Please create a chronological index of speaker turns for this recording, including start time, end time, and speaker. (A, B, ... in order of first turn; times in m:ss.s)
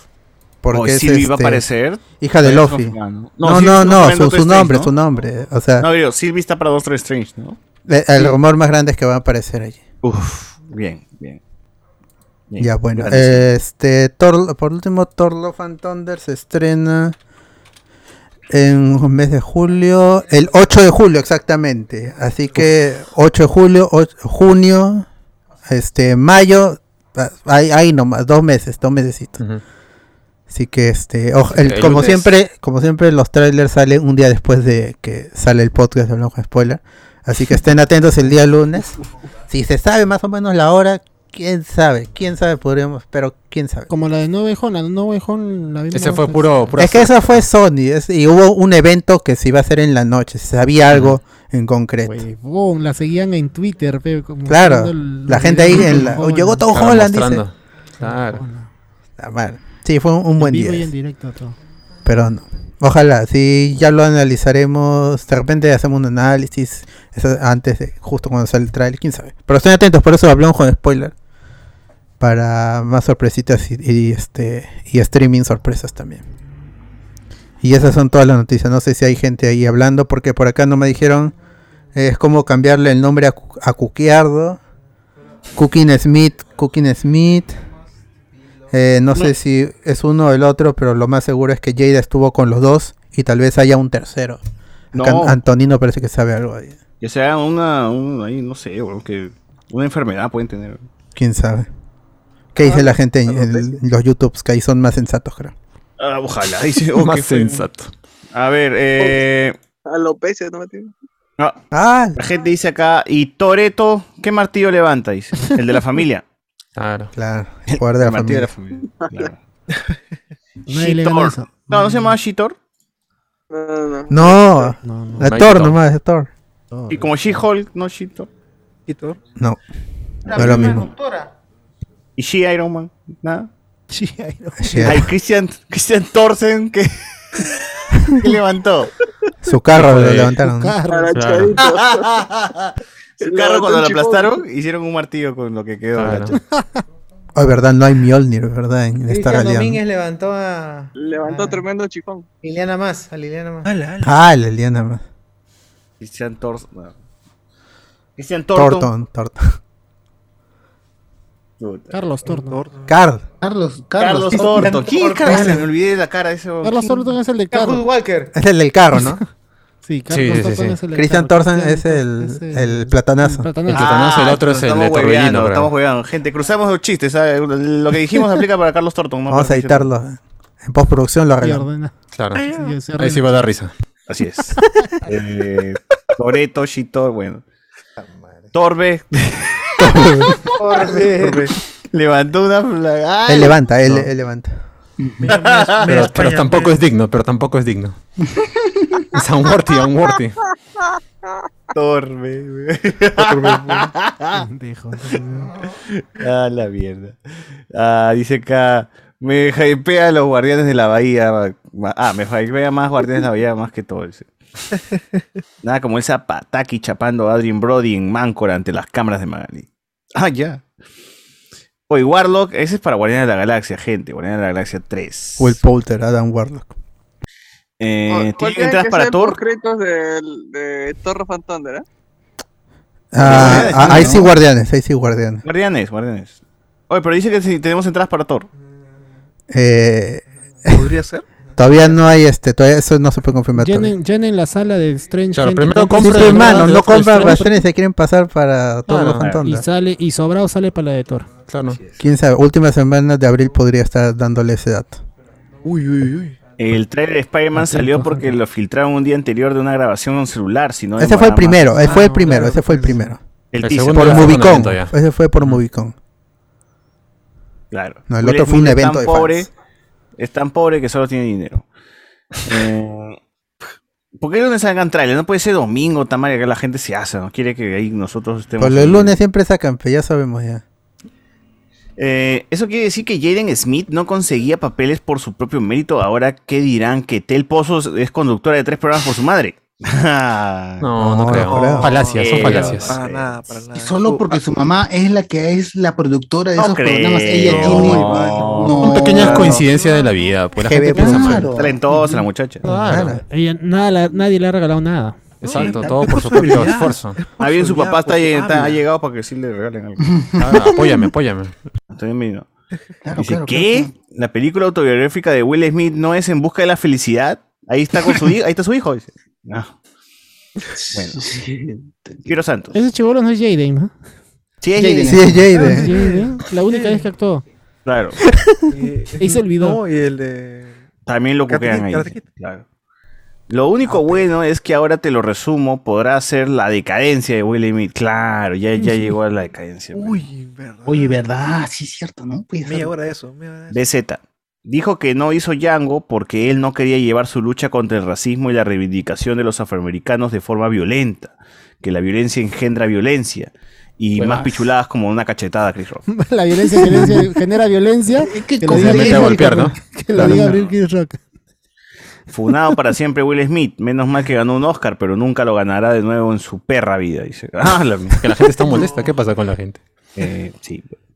0:00.6-0:01.6 A
0:00.7-0:04.9 B
0:02.2-0:05.9 A
0:05.8-0:07.6 B
0:07.9-0:09.8 A
0:10.0-0:11.4 B
0:12.5-0:13.5 B
0:12.6-0:17.2 A
0:18.5-0:25.1 A
0:25.7-0:29.4 A
0:30.5-0:39.0 A
0:31.5-0:32.3 C
0:39.5-0:43.9 A
0:43.9-0:46.8 D
0:45.9-0:47.4 C
0:46.8-0:52.2 A
0:50.9-0:51.2 C
0:52.0-0:56.7 D
0:54.5-0:57.4 A
0:56.7-0:58.4 C
0:58.0-0:58.7 D
0:59.2-1:00.9 A
1:00.4-1:01.5 D
1:02.0-1:11.1 A
1:12.2-1:16.2 A
1:17.6-1:21.3 A
1:21.9-1:24.6 A
1:25.5-1:27.6 A
1:28.7-1:34.4 A
1:34.9-1:35.4 B
1:34.9-1:36.8 A
1:37.0-1:40.8 B
1:41.1-1:41.7 A
1:42.5-1:45.5 A
1:42.6-1:43.6 E
1:46.0-1:47.6 B
1:46.9-1:47.9 C
1:48.3-1:49.6 B
1:49.8-1:50.9 E
1:51.7-1:52.2 A
1:52.1-1:56.2 B
1:56.8-1:57.1 C
1:57.1-1:58.5 A
1:57.7-1:59.4 B
1:59.0-1:59.3 E
2:00.7-2:02.1 D
2:00.7-2:02.6 B
2:03.5-2:04.7 E
2:04.1-2:06.3 A
2:04.8-2:05.3 D
2:05.2-2:05.8 C
2:06.7-2:07.0 D
2:06.9-2:08.3 B
2:08.9-2:09.2 F
2:10.2-2:11.3 G
2:10.3-2:10.7 B
2:10.3-2:10.9 A
2:12.2-2:13.5 B
2:14.5-2:14.8 D
2:14.6-2:15.0 A
2:14.8-2:17.4 B
2:18.1-2:18.9 B
2:19.4-2:20.8 A
2:19.7-2:20.4 C
2:20.4-2:21.2 D
2:20.9-2:22.1 E
2:21.1-2:21.6 C
2:21.6-2:26.4 B
2:23.2-2:24.4 E
2:25.9-2:26.4 C
2:27.3-2:29.8 A
2:29.1-2:31.6 G
2:31.0-2:32.2 E
2:32.4-2:33.7 G
2:33.6-2:34.2 F
2:34.0-2:35.0 A
2:36.0-2:36.9 B
2:38.2-2:38.9 B
2:38.5-2:39.5 A
2:41.6-2:41.9 B
2:41.9-2:42.6 D
2:42.2-2:43.0 F
2:42.9-2:43.2 A
2:43.4-2:45.6 H
2:44.0-2:47.0 B
2:44.4-2:45.6 G
2:46.6-2:47.8 D
2:47.5-2:48.3 G
2:48.3-2:49.2 A
2:49.8-2:53.9 D
2:50.1-2:50.8 C
2:50.9-2:53.5 A
2:53.7-2:55.7 C
2:53.7-2:59.9 B
2:59.3-3:01.7 A
3:01.4-3:03.4 D
3:02.1-3:02.5 C
3:02.4-3:02.7 F
3:03.0-3:03.7 C
3:04.1-3:07.4 B
3:08.5-3:09.9 B
3:09.8-3:10.4 C
3:10.6-3:11.5 G
3:10.9-3:11.5 F
3:11.9-3:13.6 B
3:13.2-3:14.6 A
3:15.2-3:16.8 F
3:15.2-3:16.1 B
3:15.8-3:18.0 C
3:19.1-3:20.4 C
3:21.7-3:24.4 B
3:23.2-3:23.9 F
3:24.3-3:25.5 D
3:25.9-3:27.2 B
3:27.7-3:34.3 B
3:35.6-3:40.6 B
3:41.9-3:45.6 B
3:45.4-3:46.7 A
3:47.8-3:49.4 B
3:48.1-3:51.8 E
3:53.1-3:55.4 A
3:53.2-3:54.3 B
3:53.3-3:54.2 H
3:55.4-3:56.4 B
3:56.9-3:58.5 B
3:59.5-4:00.9 A
4:00.7-4:01.2 F
4:01.6-4:03.9 A
4:03.6-4:07.6 D
4:05.3-4:07.5 C
4:06.0-4:09.6 A
4:08.9-4:09.3 C
4:09.4-4:11.3 D
4:11.5-4:11.8 C
4:11.8-4:12.0 F
4:12.0-4:15.0 A
4:15.6-4:16.4 F
4:16.6-4:21.7 B
4:17.6-4:18.3 D
4:21.0-4:23.2 A
4:21.8-4:23.1 D
4:21.8-4:23.0 F
4:23.5-4:24.6 B
4:23.6-4:25.6 C
4:23.8-4:25.9 A
4:27.7-4:29.5 B
4:28.1-4:29.5 A
4:30.2-4:31.6 B
4:32.4-4:33.2 B
4:34.2-4:39.2 B
4:38.6-4:40.6 A
4:42.0-4:50.9 B
4:50.8-4:53.0 C
4:51.0-4:52.0 A
4:51.5-4:54.7 F
4:52.1-4:53.3 B
4:53.7-4:59.7 H
4:56.6-4:59.6 B
4:57.4-5:00.3 F
4:58.8-5:01.5 C
5:00.6-5:01.5 A
5:00.8-5:02.2 H
5:01.5-5:02.6 B
5:02.6-5:03.2 C
5:02.7-5:03.2 A
5:02.7-5:05.2 D
5:05.4-5:07.2 C
5:05.4-5:08.8 F
5:07.4-5:10.2 B
5:10.2-5:11.1 H
5:10.4-5:11.5 C
5:11.9-5:12.5 B
5:13.0-5:13.9 H
5:13.2-5:19.7 B
5:20.9-5:21.3 B
5:22.2-5:22.7 B
5:22.7-5:23.9 D
5:24.6-5:25.5 B
5:25.0-5:25.9 A
5:25.5-5:27.1 F
5:25.6-5:27.4 D
5:27.8-5:28.2 B
5:28.3-5:28.6 A
5:28.7-5:30.8 F
5:29.2-5:29.8 D
5:31.0-5:32.6 B
5:31.4-5:32.3 F
5:33.5-5:40.2 B
5:33.8-5:34.3 F
5:39.9-5:41.2 F
5:40.8-5:42.9 H
5:42.6-5:43.9 F
5:43.7-5:56.0 B
5:54.2-5:54.7 H
5:56.1-6:01.2 D
5:56.8-5:57.2 H
5:58.2-6:00.5 H
5:58.7-6:00.6 C
6:02.3-6:08.2 B
6:08.1-6:09.8 C
6:08.7-6:09.1 F
6:10.2-6:11.0 B